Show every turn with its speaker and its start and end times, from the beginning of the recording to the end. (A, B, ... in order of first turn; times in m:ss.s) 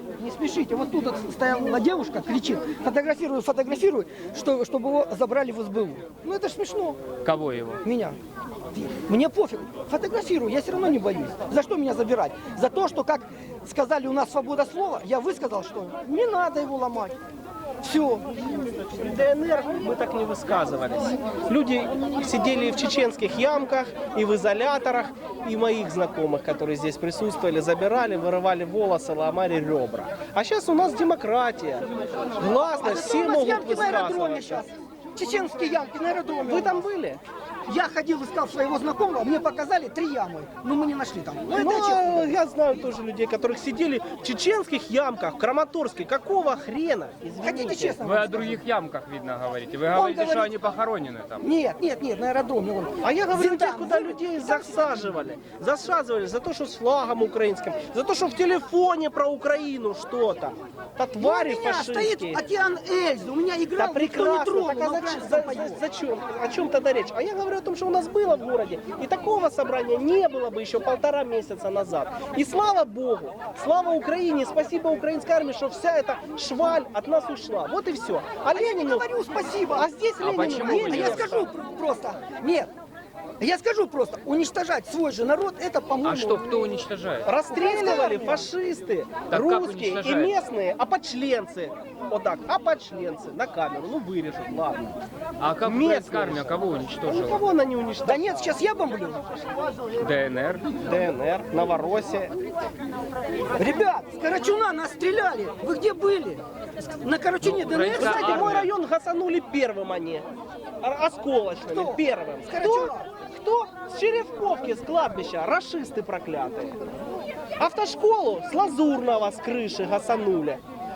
0:00.2-0:07.0 A
0:07.2-0:07.8 B
0:07.8-0:08.2 A
0:08.7-0:17.2 A
0:17.8-0:18.2 A
0:19.0-0:31.8 C
0:32.4-0:34.6 C
0:32.6-0:36.9 A
0:36.4-0:37.2 C
0:37.7-0:42.3 A
0:41.5-0:48.0 C
0:47.4-0:48.6 A
0:48.0-0:51.4 B
0:49.9-0:50.5 A
0:51.4-0:55.2 A
0:53.0-1:02.4 C
1:01.2-1:05.8 A
1:03.8-1:19.1 C
1:18.4-1:22.7 A
1:20.2-1:21.4 B
1:20.4-1:21.4 C
1:23.4-1:26.4 A
1:26.0-1:27.3 B
1:27.2-1:34.9 C
1:27.4-1:28.5 A
1:29.3-1:30.3 B
1:35.4-1:37.4 B
1:35.6-1:36.5 C
1:37.1-1:38.6 C
1:38.0-1:39.2 A
1:40.0-1:40.6 B
1:40.8-1:42.3 C
1:43.6-1:46.4 A
1:47.0-1:48.7 A
1:47.4-1:48.7 B
1:47.9-1:50.2 C
1:50.8-1:56.7 C
1:51.6-1:53.0 A
1:57.6-2:00.6 C